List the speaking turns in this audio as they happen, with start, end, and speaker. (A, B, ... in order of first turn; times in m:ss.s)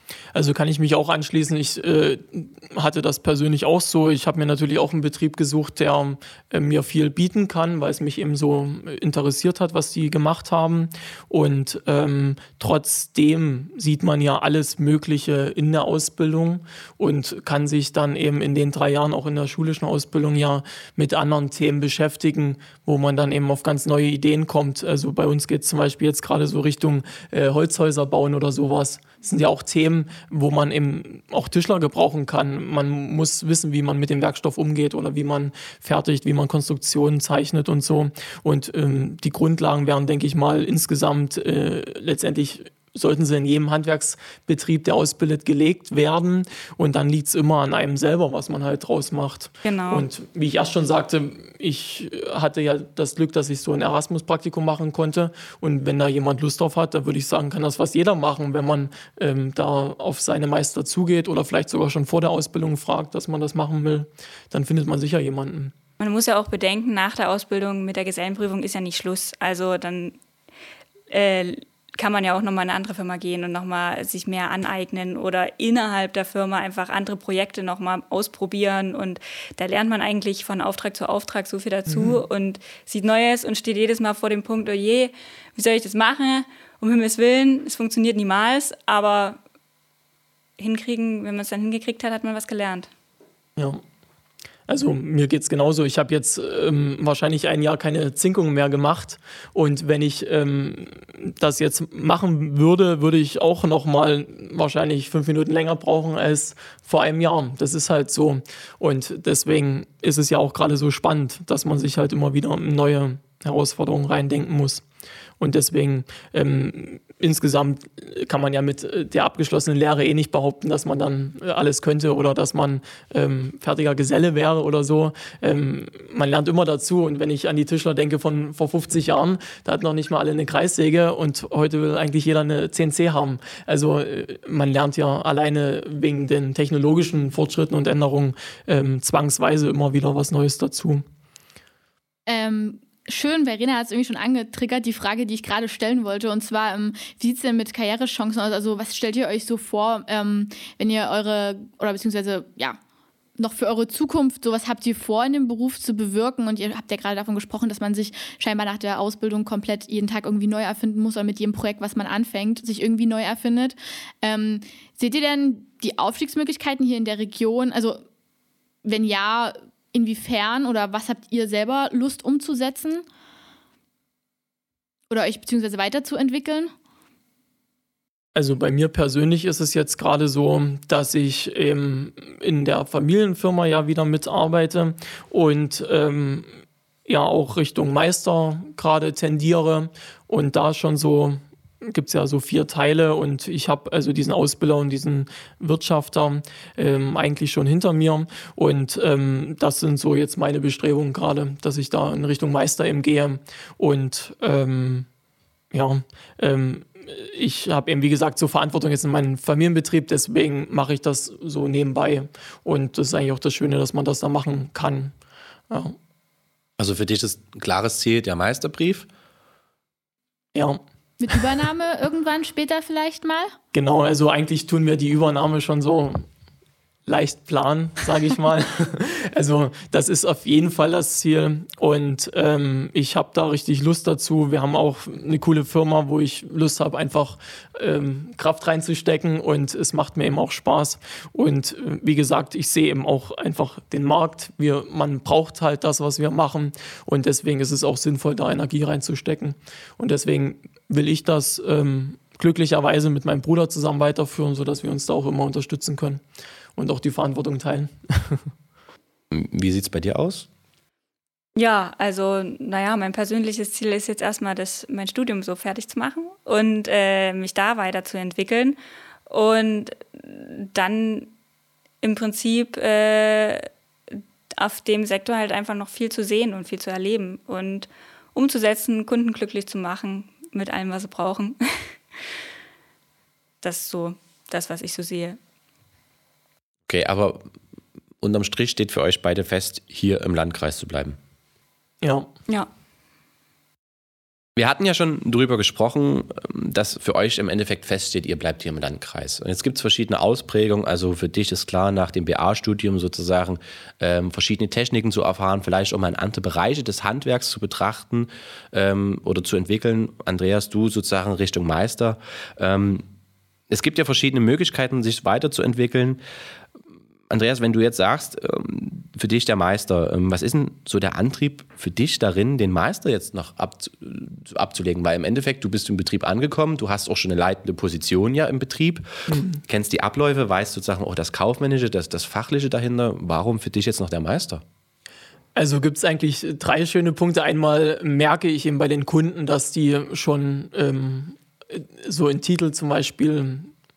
0:00.3-1:05.7 A
0:49.6-0:50.1 B
1:06.0-1:10.2 B
1:11.1-1:29.4 B
1:21.9-1:22.2 A
1:30.6-1:32.9 B
1:33.6-1:33.8 A
1:34.7-1:54.8 A
1:55.4-2:21.0 A
2:22.3-2:32.8 C
2:33.4-2:48.0 C
2:48.8-2:53.0 C
2:55.1-2:56.7 C
2:58.4-3:06.5 A
3:07.1-3:25.1 A
3:25.7-3:35.1 A
3:35.7-3:36.0 A
3:36.8-3:39.1 D
3:40.6-3:40.8 A
3:41.2-3:43.5 C
3:43.7-3:46.3 A
3:47.1-4:16.2 A
4:16.8-4:18.5 A
4:19.3-4:20.5 D
4:21.6-4:31.3 B
4:32.0-4:42.2 B
4:43.6-4:45.4 B
4:46.9-4:47.5 D
4:48.2-4:51.2 D
4:52.0-4:52.3 A
4:54.6-5:13.1 D
5:13.7-5:16.2 D
5:17.3-5:34.6 D
5:29.3-5:29.6 A
5:35.6-5:43.7 A